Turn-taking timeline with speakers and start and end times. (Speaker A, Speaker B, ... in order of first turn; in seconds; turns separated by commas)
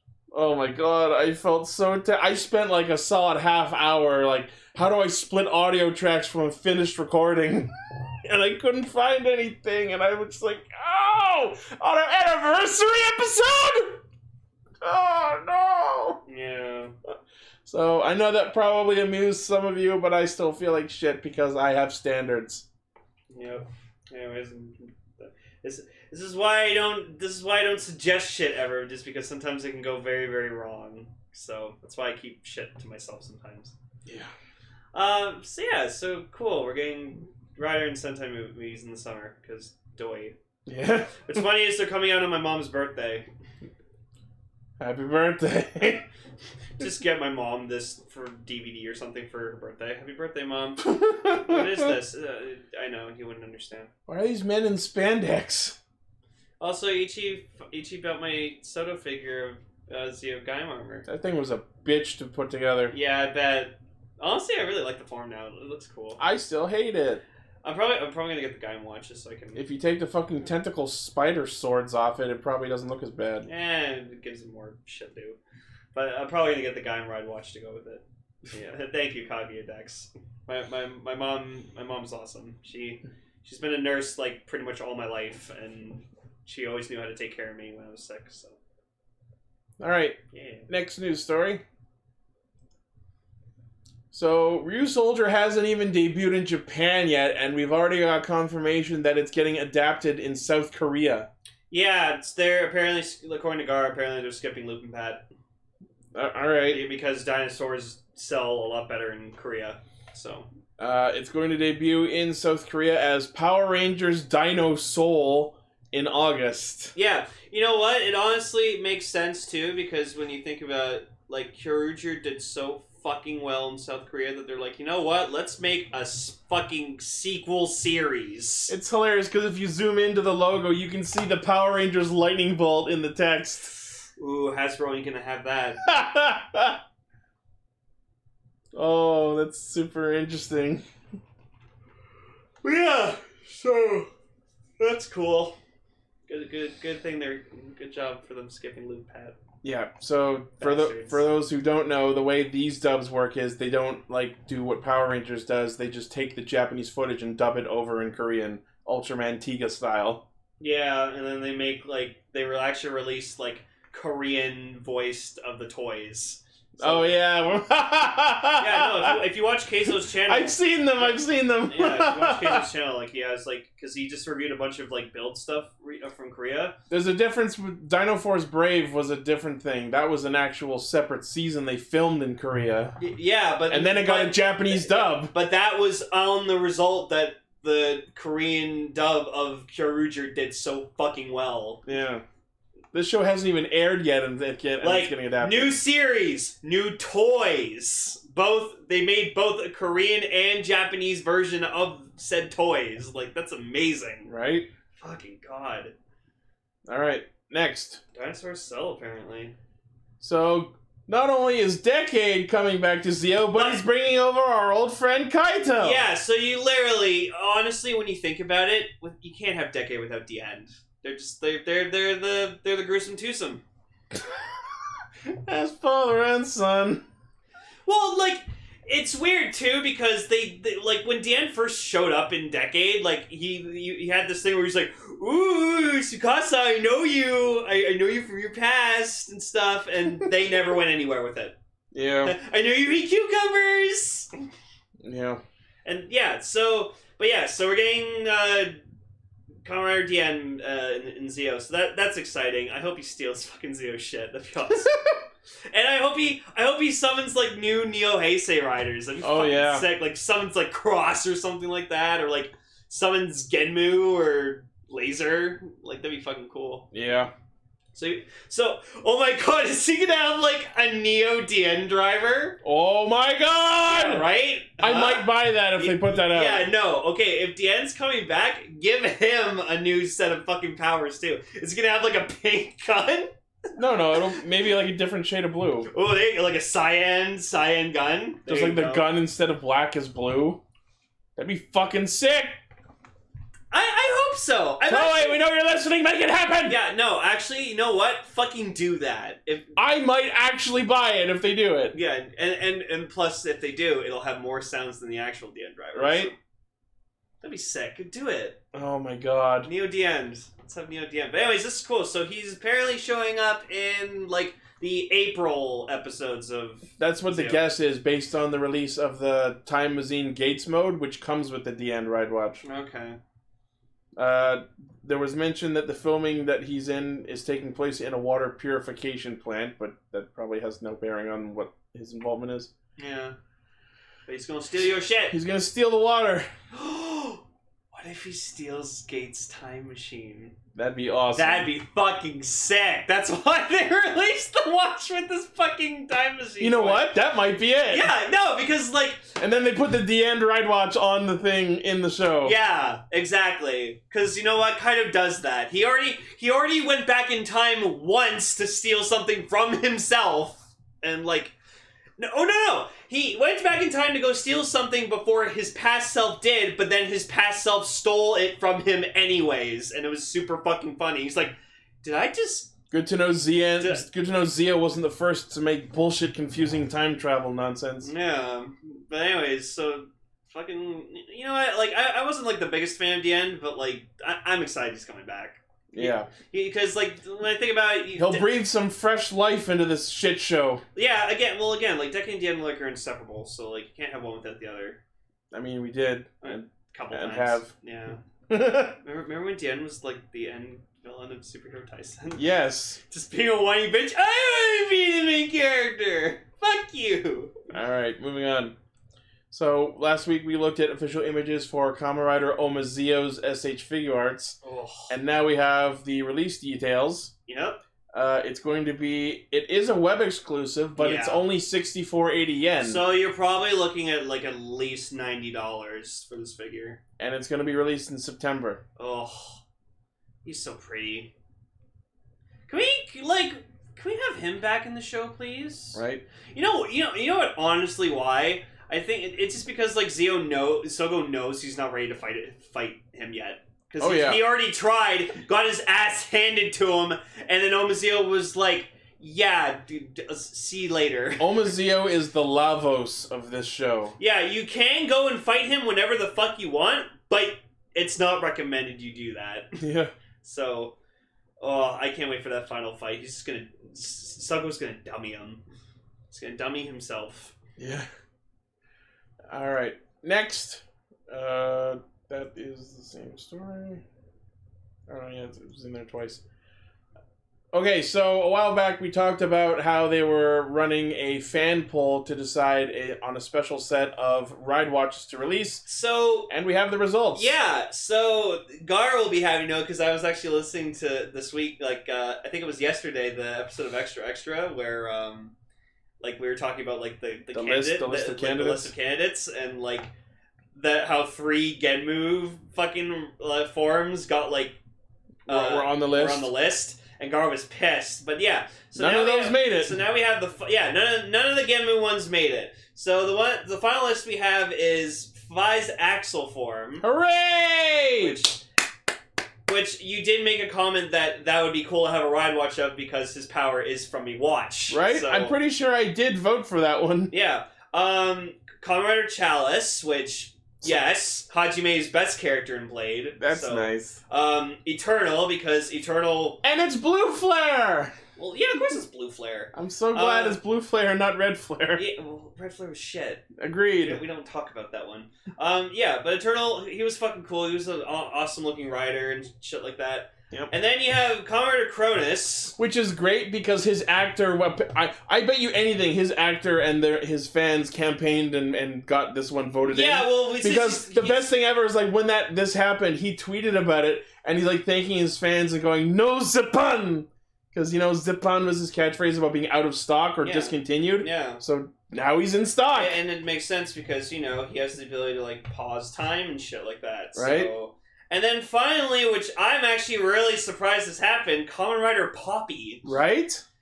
Speaker A: 0.3-14.0, Speaker A: 14.8-16.2, Speaker B: 16.2-16.9, Speaker A: 17.6-22.6, Speaker B: 23.3-33.7, Speaker A: 34.0-34.3, Speaker B: 34.9-40.4, Speaker A: 40.6-41.4, Speaker B: 41.2-43.3, Speaker A: 44.8-46.1, Speaker B: 46.8-53.9, Speaker A: 50.8-51.9, Speaker A: 54.1-55.8, Speaker B: 56.6-61.0, Speaker A: 61.0-62.9, Speaker B: 62.9-66.2, Speaker A: 66.2-67.2, Speaker B: 67.6-69.7, Speaker A: 69.5-73.5, Speaker B: 73.4-75.4, Speaker B: 75.9-88.6, Speaker A: 89.8-91.6, Speaker B: 90.3-90.7, Speaker A: 94.1-101.3, Speaker B: 101.7-105.2, Speaker A: 106.1-106.8, Speaker B: 106.7-110.5, Speaker A: 110.8-116.9, Speaker B: 116.9-128.7, Speaker A: 128.7-133.8, Speaker B: 134.2-135.8, Speaker A: 135.8-136.8, Speaker A: 138.7-140.8, Speaker B: 142.6-144.1, Speaker B: 144.8-145.6, Speaker B: 146.3-149.3, Speaker A: 149.6-160.2, Speaker B: 150.6-151.2, Speaker B: 160.6-167.1, Speaker A: 166.8-169.2, Speaker B: 168.6-176.8, Speaker A: 170.1-172.7, Speaker A: 176.9-183.0, Speaker B: 183.0-191.8, Speaker A: 183.7-185.3, Speaker A: 191.8-192.2, Speaker A: 192.9-195.8, Speaker B: 194.8-204.3, Speaker A: 204.3-204.7, Speaker B: 205.0-205.9, Speaker A: 206.9-208.0, Speaker B: 208.1-209.5, Speaker A: 210.2-216.0, Speaker B: 213.5-213.8, Speaker B: 215.8-223.6, Speaker A: 224.1-224.5, Speaker A: 225.3-227.0, Speaker B: 227.8-241.6, Speaker A: 241.9-242.3, Speaker B: 242.2-244.3, Speaker A: 245.0-245.4, Speaker B: 245.8-248.8, Speaker B: 249.6-266.9, Speaker A: 259.2-259.9, Speaker A: 266.9-267.3, Speaker B: 267.9-272.6, Speaker A: 272.6-274.3, Speaker B: 273.8-283.3, Speaker A: 274.8-276.7, Speaker A: 283.8-285.9, Speaker B: 285.9-289.1, Speaker A: 288.5-290.6, Speaker A: 291.4-292.6, Speaker B: 293.7-295.4, Speaker A: 294.9-296.8, Speaker B: 296.6-299.8, Speaker A: 299.8-301.9, Speaker B: 301.9-306.4, Speaker A: 305.9-306.3, Speaker B: 307.4-308.6, Speaker A: 308.7-309.7, Speaker B: 309.6-317.6, Speaker A: 317.0-322.6, Speaker B: 322.6-323.2, Speaker A: 324.1-332.7, Speaker B: 333.0-333.3, Speaker B: 334.3-335.4, Speaker A: 335.3-336.5, Speaker B: 336.7-340.5, Speaker A: 340.7-341.7, Speaker B: 341.3-347.1, Speaker A: 346.6-348.1, Speaker B: 347.9-349.3, Speaker A: 349.4-352.6, Speaker B: 352.4-361.5, Speaker B: 362.2-372.7, Speaker A: 372.9-378.1, Speaker B: 373.8-374.1, Speaker B: 378.0-388.5, Speaker A: 385.9-386.3, Speaker A: 388.1-390.8, Speaker B: 390.9-395.0, Speaker A: 395.5-397.7, Speaker B: 396.4-398.2, Speaker A: 398.5-399.0, Speaker B: 399.0-402.5, Speaker A: 402.3-403.0, Speaker B: 403.1-407.6, Speaker A: 407.7-408.7, Speaker A: 409.5-414.6, Speaker B: 414.6-415.2, Speaker A: 415.1-417.3, Speaker B: 417.5-417.8, Speaker A: 418.1-423.0, Speaker B: 421.0-421.4, Speaker B: 422.8-427.0, Speaker A: 427.2-428.8, Speaker B: 429.0-429.6, Speaker B: 430.4-431.3, Speaker B: 432.7-451.6, Speaker A: 435.9-436.2, Speaker A: 444.0-444.4, Speaker A: 451.4-454.1, Speaker B: 454.2-459.8, Speaker A: 459.8-460.1, Speaker B: 460.4-460.9, Speaker B: 461.6-465.6, Speaker B: 466.3-467.6, Speaker A: 467.8-468.1, Speaker A: 469.5-474.0, Speaker A: 475.1-476.4, Speaker A: 477.7-485.8, Speaker B: 485.9-486.5, Speaker A: 486.5-487.6, Speaker B: 487.3-495.5, Speaker B: 496.2-500.1, Speaker A: 497.5-498.9, Speaker B: 500.7-504.8, Speaker A: 505.4-506.5, Speaker B: 505.5-517.0, Speaker A: 508.9-510.0, Speaker A: 517.0-518.4, Speaker B: 518.1-518.6, Speaker B: 519.7-525.5, Speaker A: 524.9-527.3, Speaker B: 527.3-536.6, Speaker A: 533.4-534.2, Speaker A: 536.6-538.1, Speaker B: 538.4-540.6, Speaker A: 539.7-542.0, Speaker B: 541.9-543.5, Speaker A: 543.6-544.2, Speaker B: 544.0-552.8, Speaker A: 552.8-573.2, Speaker B: 559.9-561.5, Speaker B: 570.4-571.6, Speaker B: 572.9-583.1, Speaker A: 577.4-577.7, Speaker A: 583.0-583.6